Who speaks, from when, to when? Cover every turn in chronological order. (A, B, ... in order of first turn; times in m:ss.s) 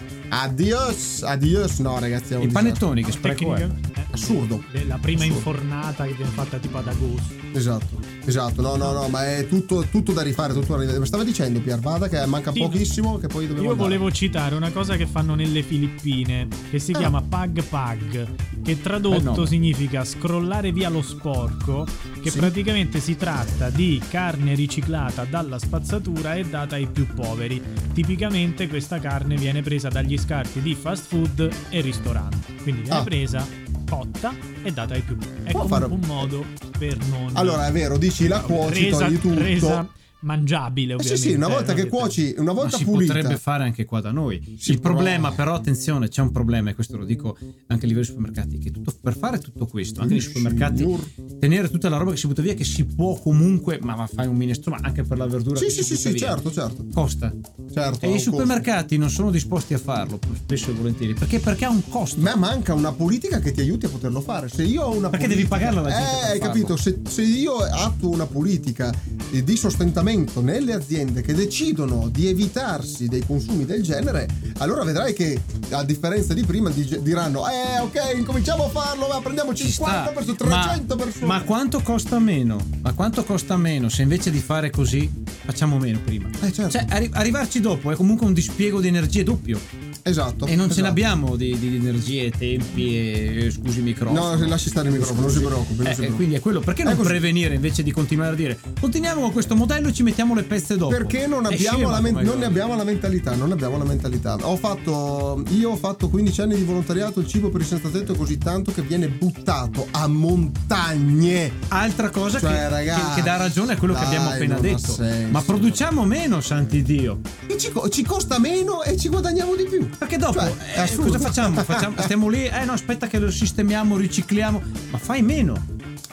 0:00.3-0:02.8 A
0:02.4-0:03.7 B
0:03.0-0:07.4 C
0:04.1-0:05.5 A
0:07.5-0:14.0 A
0:08.7-0:09.0 C
0:12.5-0:12.9 C
0:13.6-0:37.7 C
0:19.1-0:19.5 B
0:22.2-0:22.5 A
0:35.5-0:36.3 A
0:37.3-0:39.8 A
0:38.2-0:42.3 C
0:41.0-0:43.4 A
0:42.6-0:56.4 B
0:44.6-0:45.4 A
0:50.0-0:51.1 A
0:55.6-0:56.9 A
0:56.9-0:57.4 B
0:57.7-0:58.6 A
0:58.0-1:02.3 B
1:02.2-1:21.5 A
1:05.1-1:06.8 B
1:19.6-1:29.6 B
1:26.4-1:26.9 A
1:30.0-1:31.0 A
1:30.5-1:42.6 B
1:34.1-1:36.3 A
1:36.8-1:37.2 A
1:40.9-1:51.6 A
1:51.7-1:57.2 B
1:52.4-1:55.8 A
1:57.5-2:02.1 A
2:00.0-2:05.7 B